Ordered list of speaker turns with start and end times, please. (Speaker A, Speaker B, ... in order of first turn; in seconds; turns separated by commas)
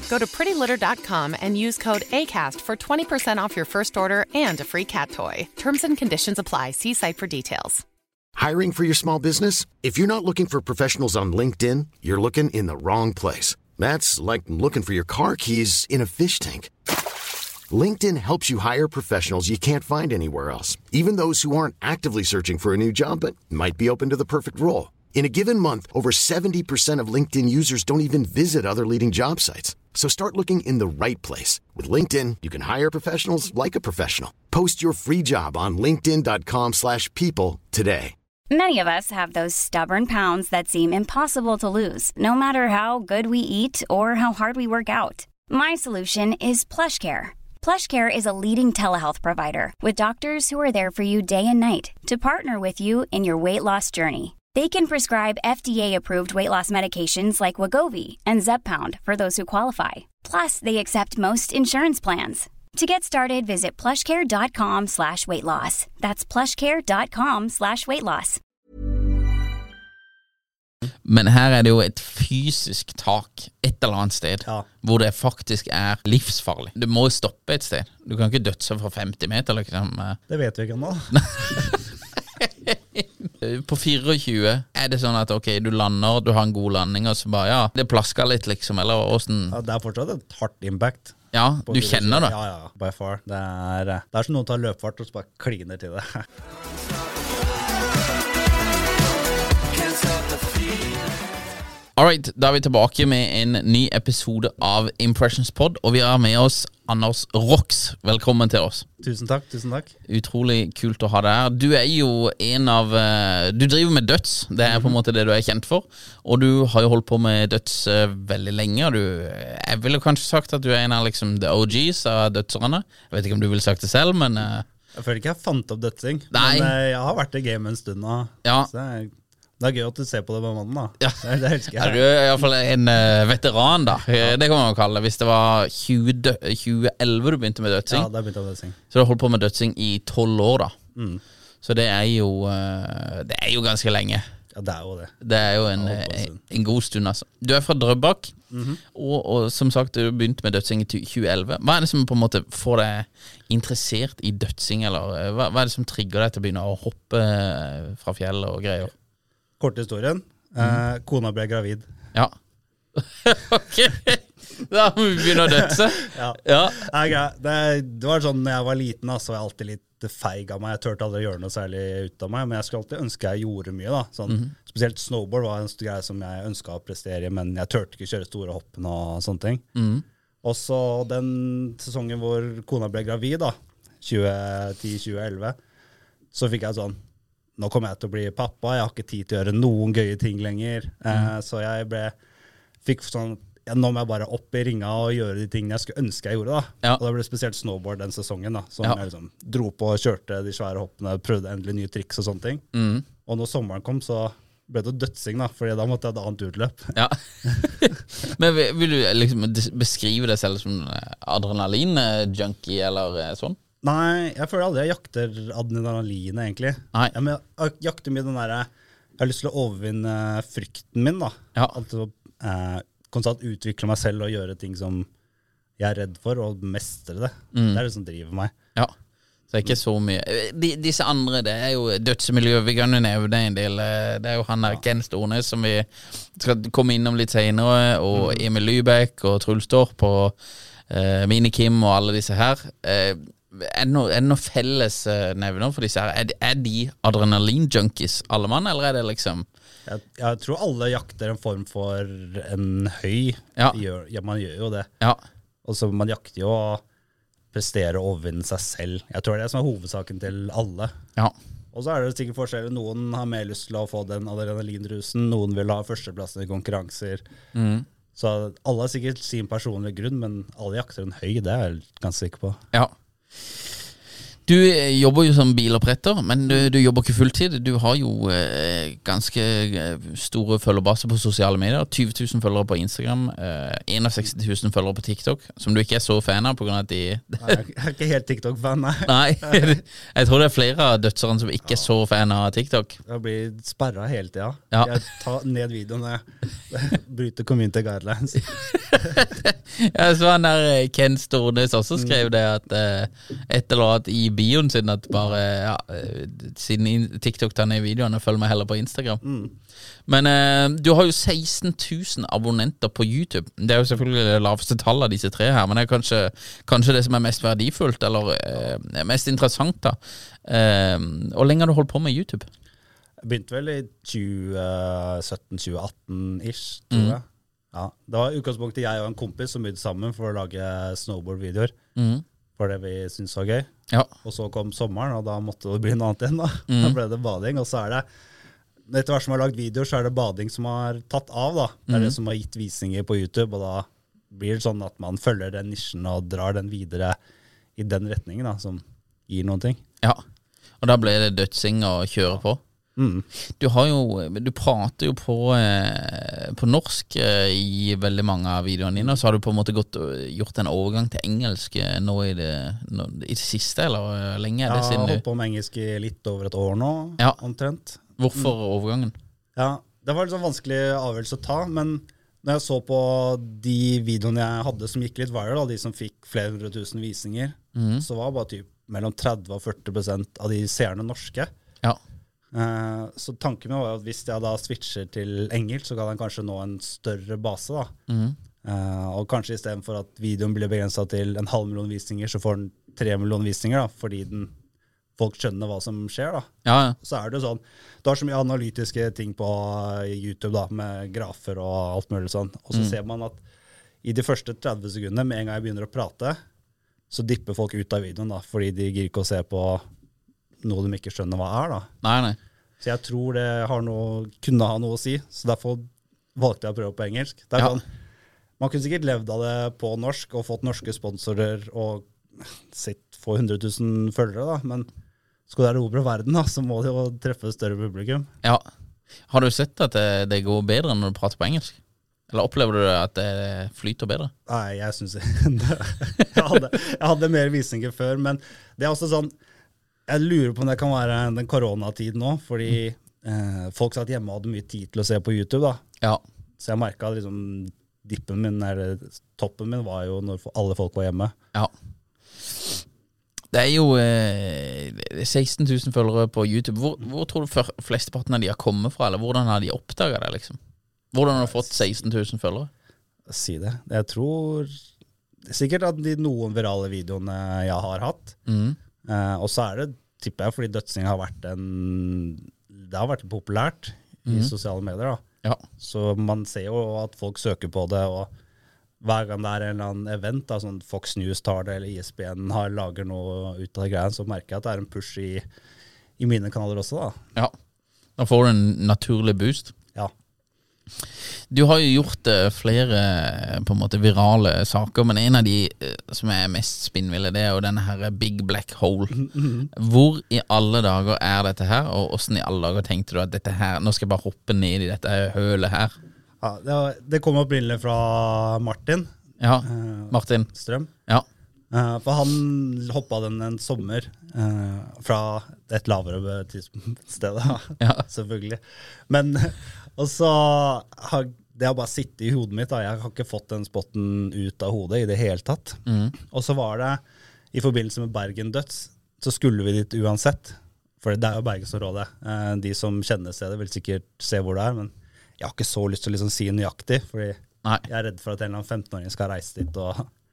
Speaker A: 0.1-7.8, Speaker B: 8.4-38.1, Speaker C: 38.5-68.4, Speaker D: 71.0-80.2, Speaker E: 80.3-81.7, Speaker D: 81.2-81.8, Speaker D: 82.4-89.6, Speaker E: 89.5-96.2, Speaker D: 91.3-92.3, Speaker D: 102.0-108.9, Speaker E: 109.0-109.9, Speaker D: 110.1-124.7, Speaker E: 114.7-115.0, Speaker E: 124.9-132.0, Speaker D: 126.3-126.8, Speaker D: 128.4-128.7, Speaker D: 131.0-138.1, Speaker E: 137.9-138.8, Speaker D: 138.9-140.8, Speaker E: 140.9-141.2, Speaker D: 141.6-144.2, Speaker E: 144.5-145.2, Speaker D: 145.2-148.3, Speaker E: 145.8-146.4, Speaker E: 148.5-148.8, Speaker D: 148.9-158.9, Speaker E: 159.6-161.9, Speaker D: 163.0-166.9, Speaker E: 165.4-179.7, Speaker D: 179.8-180.0, Speaker E: 180.4-185.6, Speaker E: 186.3-187.0, Speaker E: 187.6-192.1, Speaker E: 192.8-202.7, Speaker D: 202.7-203.1, Speaker E: 203.2-207.0, Speaker D: 206.9-213.6, Speaker E: 213.8-225.1, Speaker E: 225.8-228.6, Speaker D: 227.5-227.8, Speaker D: 229.5-240.3, Speaker E: 238.1-238.4, Speaker D: 240.9-249.5, Speaker E: 249.9-254.9, Speaker E: 255.7-256.8, Speaker E: 257.5-260.9, Speaker E: 261.7-267.2, Speaker D: 267.6-267.9, Speaker E: 268.1-272.6, Speaker D: 274.5-287.6, Speaker E: 287.4-289.8, Speaker D: 289.1-293.0, Speaker E: 293.1-299.2, Speaker D: 298.7-309.2, Speaker E: 309.2-309.5, Speaker D: 310.1-322.5, Speaker E: 323.2-331.8, Speaker D: 326.9-327.2, Speaker D: 332.0-332.2, Speaker E: 332.6-333.7, Speaker E: 334.2-338.1, Speaker D: 336.7-337.0, Speaker E: 338.9-347.2, Speaker D: 341.9-342.1, Speaker E: 347.8-349.8, Speaker D: 350.8-352.6, Speaker E: 353.0-353.3, Speaker D: 353.6-365.2, Speaker E: 364.7-368.5, Speaker D: 368.2-369.1, Speaker E: 369.6-381.5, Speaker D: 377.8-378.1, Speaker E: 382.5-387.9, Speaker D: 388.1-388.4, Speaker E: 388.6-394.5, Speaker E: 395.2-403.4, Speaker D: 396.6-397.0, Speaker E: 404.0-406.4, Speaker E: 407.1-409.8, Speaker E: 410.6-411.9, Speaker D: 412.0-412.4, Speaker E: 412.8-417.9, Speaker E: 418.6-424.9, Speaker E: 425.5-428.3, Speaker D: 429.3-431.8, Speaker D: 432.3-434.3, Speaker E: 434.5-439.3, Speaker E: 440.1-445.8, Speaker E: 446.6-451.4, Speaker D: 453.5-460.6, Speaker D: 461.1-462.7, Speaker E: 461.4-461.7, Speaker E: 463.3-464.8, Speaker E: 465.4-468.4, Speaker D: 468.5-468.8, Speaker E: 469.1-475.2, Speaker E: 475.8-478.3, Speaker E: 479.0-485.4, Speaker E: 486.2-487.2, Speaker D: 488.2-489.7, Speaker D: 491.5-505.9, Speaker E: 499.3-499.7, Speaker E: 506.4-509.1, Speaker D: 509.4-510.5, Speaker E: 509.6-510.9, Speaker E: 511.7-527.0, Speaker D: 517.8-518.0, Speaker D: 525.9-526.1, Speaker E: 527.5-540.1